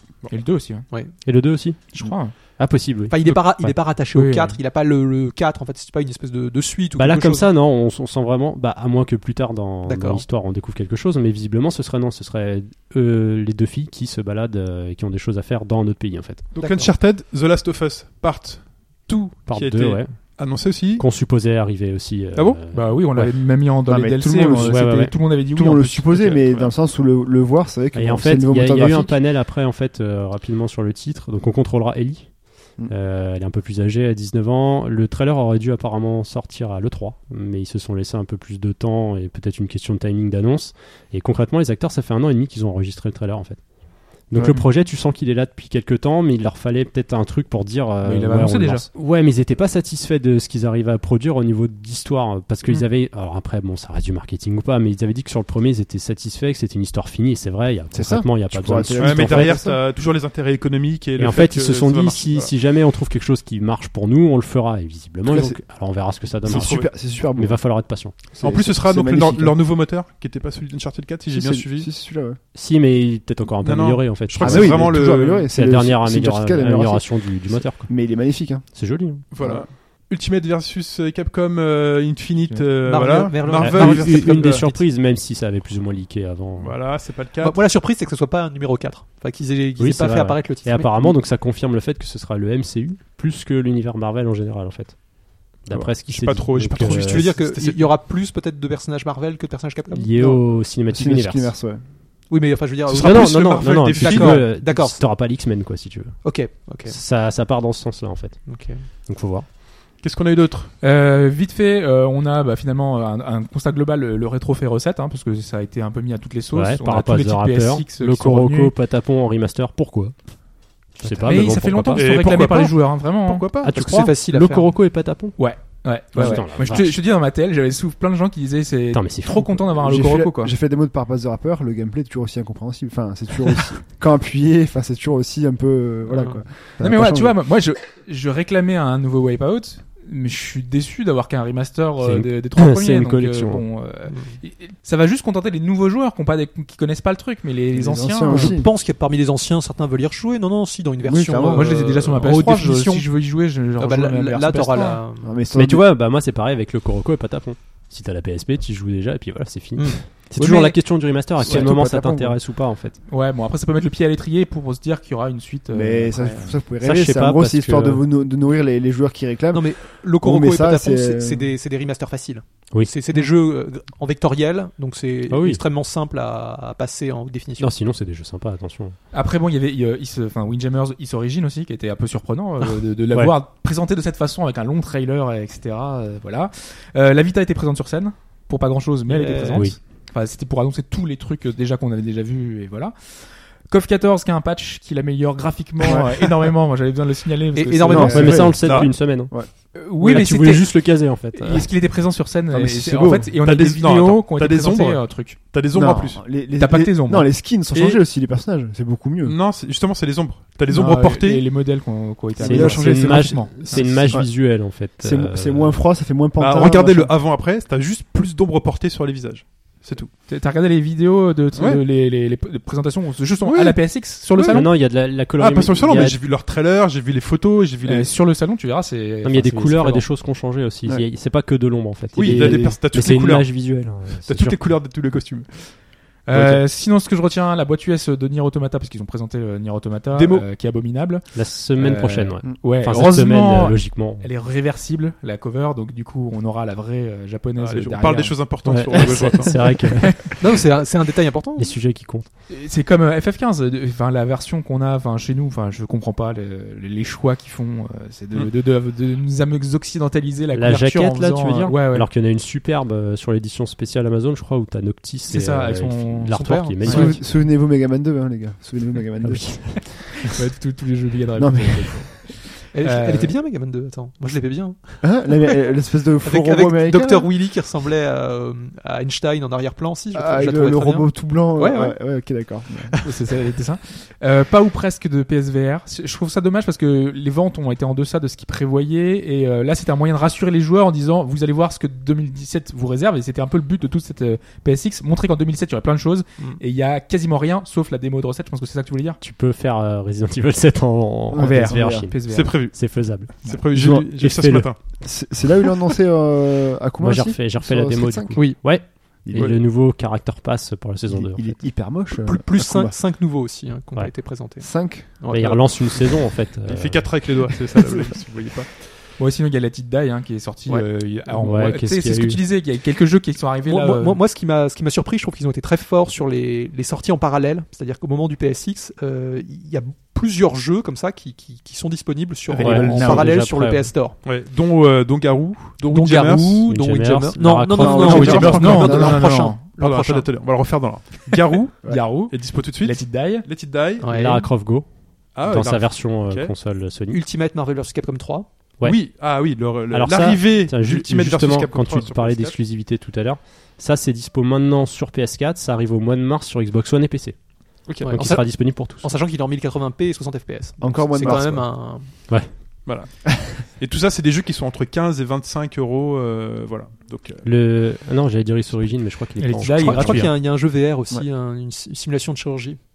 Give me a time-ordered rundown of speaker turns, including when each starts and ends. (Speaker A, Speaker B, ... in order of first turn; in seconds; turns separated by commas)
Speaker A: 0.3-0.9, Speaker B: 0.9-1.1, Speaker C: 1.2-3.8, Speaker A: 1.9-2.3, Speaker B: 3.1-7.5, Speaker A: 4.0-4.6, Speaker C: 7.0-16.5, Speaker B: 9.8-10.2, Speaker D: 16.5-21.1, Speaker B: 16.6-16.9, Speaker C: 19.5-23.3, Speaker D: 22.3-22.6, Speaker A: 22.7-26.4, Speaker E: 23.9-29.2, Speaker C: 24.5-25.2, Speaker D: 26.2-26.7, Speaker C: 27.9-59.6, Speaker A: 48.0-48.9, Speaker E: 57.9-59.8, Speaker D: 59.0-62.5, Speaker C: 61.2-68.2, Speaker E: 65.2-65.6, Speaker E: 66.4-69.6, Speaker D: 66.5-66.9, Speaker D: 68.4-71.9, Speaker E: 71.3-72.4, Speaker C: 72.5-78.1, Speaker D: 73.6-75.5, Speaker E: 74.4-78.7, Speaker C: 78.7-79.3, Speaker D: 79.3-84.6, Speaker E: 79.3-79.6, Speaker B: 82.8-84.8, Speaker C: 83.6-86.8, Speaker D: 86.6-87.7, Speaker B: 87.4-91.1, Speaker C: 89.8-97.3, Speaker D: 95.7-98.0, Speaker B: 96.7-100.1, Speaker C: 99.9-101.6, Speaker E: 100.2-101.8, Speaker B: 102.3-105.1, Speaker D: 102.9-104.5, Speaker C: 102.9-109.5, Speaker B: 106.2-107.0, Speaker B: 108.5-108.9, Speaker D: 110.0-110.7, Speaker A: 110.8-118.7, Speaker C: 116.5-120.1, Speaker C: 120.9-122.1, Speaker E: 121.0-121.4, Speaker A: 121.2-123.4, Speaker D: 121.9-123.7, Speaker C: 123.6-125.4, Speaker B: 123.7-124.7, Speaker A: 125.4-130.5, Speaker C: 126.1-127.0, Speaker C: 128.9-129.7, Speaker E: 129.8-137.4, Speaker B: 136.1-136.4, Speaker A: 136.8-148.6, Speaker C: 142.0-143.7, Speaker B: 144.1-144.3, Speaker E: 147.7-148.7, Speaker B: 148.3-152.6, Speaker E: 151.0-151.8, Speaker A: 151.5-155.0, Speaker D: 152.2-153.0, Speaker B: 153.8-155.3, Speaker E: 155.2-155.9, Speaker C: 155.5-163.0, Speaker B: 159.7-160.2, Speaker A: 160.4-160.7, Speaker E: 161.4-162.4, Speaker A: 163.1-166.4, Speaker E: 165.7-171.5, Speaker B: 166.2-166.4, Speaker C: 166.8-168.0, Speaker B: 169.5-177.7, Speaker C: 175.3-175.6, Speaker C: 177.6-179.0, Speaker A: 179.1-198.5, Speaker B: 189.1-189.7, Speaker E: 195.8-196.3, Speaker B: 197.5-198.6, Speaker E: 197.9-199.5, Speaker C: 197.9-201.7, Speaker D: 198.6-198.9, Speaker A: 199.7-205.4, Speaker E: 202.5-203.3, Speaker D: 203.4-206.2, Speaker E: 205.7-209.4, Speaker A: 206.6-207.3, Speaker D: 207.7-208.0, Speaker D: 209.2-211.4, Speaker A: 210.7-214.0, Speaker E: 212.4-217.1, Speaker C: 212.4-215.8, Speaker D: 216.4-220.1, Speaker A: 220.3-224.7, Speaker D: 221.5-221.8, Speaker D: 223.4-228.1, Speaker C: 224.5-226.2, Speaker A: 227.8-230.1, Speaker C: 229.2-234.7, Speaker D: 232.2-235.8, Speaker A: 232.2-232.7, Speaker A: 236.2-250.1, Speaker D: 240.1-240.5, Speaker C: 241.3-244.3, Speaker D: 247.6-250.2, Speaker C: 248.6-250.4, Speaker B: 250.4-251.8, Speaker C: 251.6-252.3, Speaker A: 252.5-262.1, Speaker C: 260.5-267.2, Speaker A: 265.3-267.2, Speaker B: 266.3-267.1, Speaker E: 266.8-270.1, Speaker C: 269.2-270.3, Speaker A: 270.3-273.3, Speaker E: 271.4-272.3, Speaker B: 272.7-282.0, Speaker E: 275.0-277.3, Speaker E: 280.1-283.0, Speaker A: 283.0-299.2, Speaker C: 299.2-304.7, Speaker E: 301.3-302.1, Speaker A: 301.4-302.7, Speaker D: 302.3-304.8, Speaker E: 303.7-304.1, Speaker E: 305.0-309.6, Speaker C: 307.0-311.5, Speaker B: 308.3-308.7, Speaker E: 311.1-312.9, Speaker B: 312.1-316.2, Speaker E: 314.6-315.2, Speaker C: 315.3-317.3, Speaker D: 316.7-318.7, Speaker A: 319.2-324.2, Speaker C: 321.3-322.4, Speaker B: 323.6-334.2, Speaker A: 332.5-333.0, Speaker C: 332.5-333.9, Speaker E: 332.9-333.3, Speaker D: 334.2-336.7, Speaker B: 335.8-340.5, Speaker C: 336.7-338.6, Speaker E: 337.7-339.2, Speaker D: 337.9-344.2, Speaker A: 337.9-339.6, Speaker A: 341.8-343.5, Speaker B: 344.0-344.5, Speaker C: 344.1-347.2, Speaker D: 345.3-346.5, Speaker B: 347.1-348.7, Speaker C: 348.8-349.0, Speaker D: 348.8-352.6, Speaker C: 349.9-359.1, Speaker D: 357.9-358.2, Speaker B: 358.0-362.3, Speaker E: 360.8-361.9, Speaker C: 362.3-362.5, Speaker D: 362.9-367.4, Speaker C: 367.4-370.3, Speaker A: 369.4-370.3, Speaker B: 369.8-372.8